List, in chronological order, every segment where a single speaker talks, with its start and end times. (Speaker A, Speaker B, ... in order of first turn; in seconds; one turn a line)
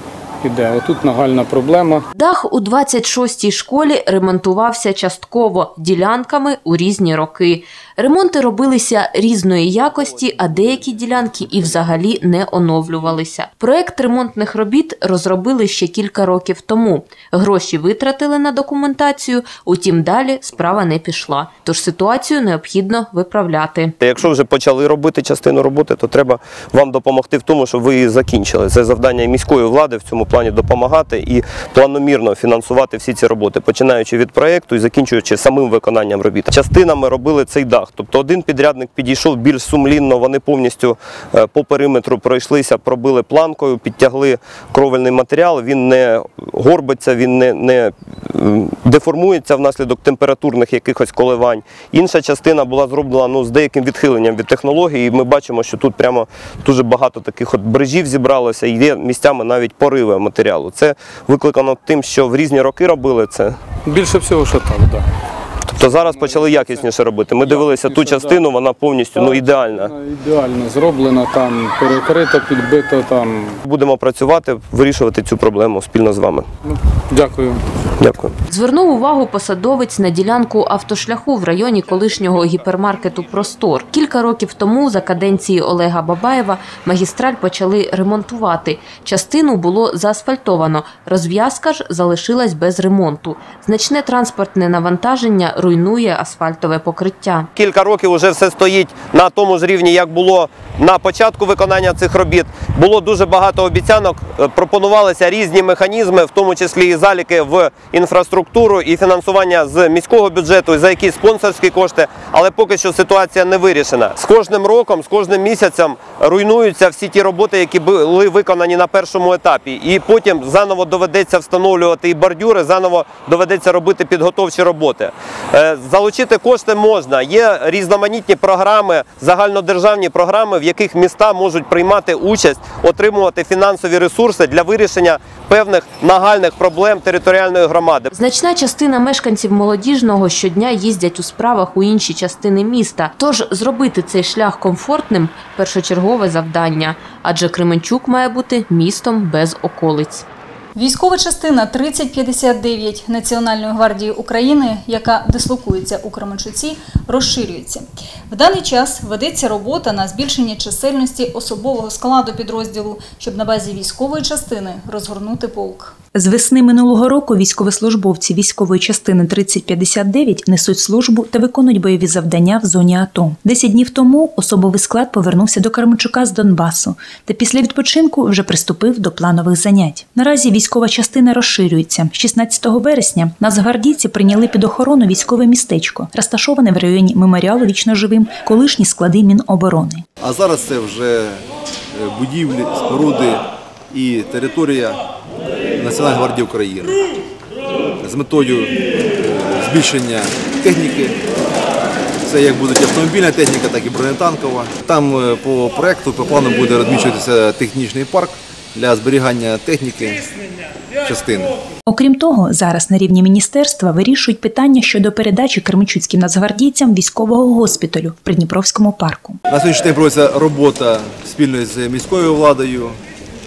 Speaker A: 0.4-2.0
Speaker B: 2.1-23.9
Speaker C: 24.0-63.6
Speaker A: 63.9-65.0
Speaker C: 65.7-70.0
Speaker A: 67.5-68.4
Speaker A: 69.2-73.6
Speaker C: 73.7-76.5
Speaker A: 77.1-77.6
Speaker C: 78.0-78.3
Speaker B: 78.5-97.5
Speaker C: 97.6-138.1
Speaker B: 138.1-150.2
Speaker D: 150.8-165.9
Speaker E: 166.2-190.0
Speaker F: 190.2-191.4
Speaker F: 192.0-195.0
Speaker F: 195.8-196.9
Speaker F: 198.0-201.2
Speaker F: 202.3-210.2
Speaker F: 211.1-211.5
Speaker E: 211.9-219.4
Speaker F: 219.5-223.0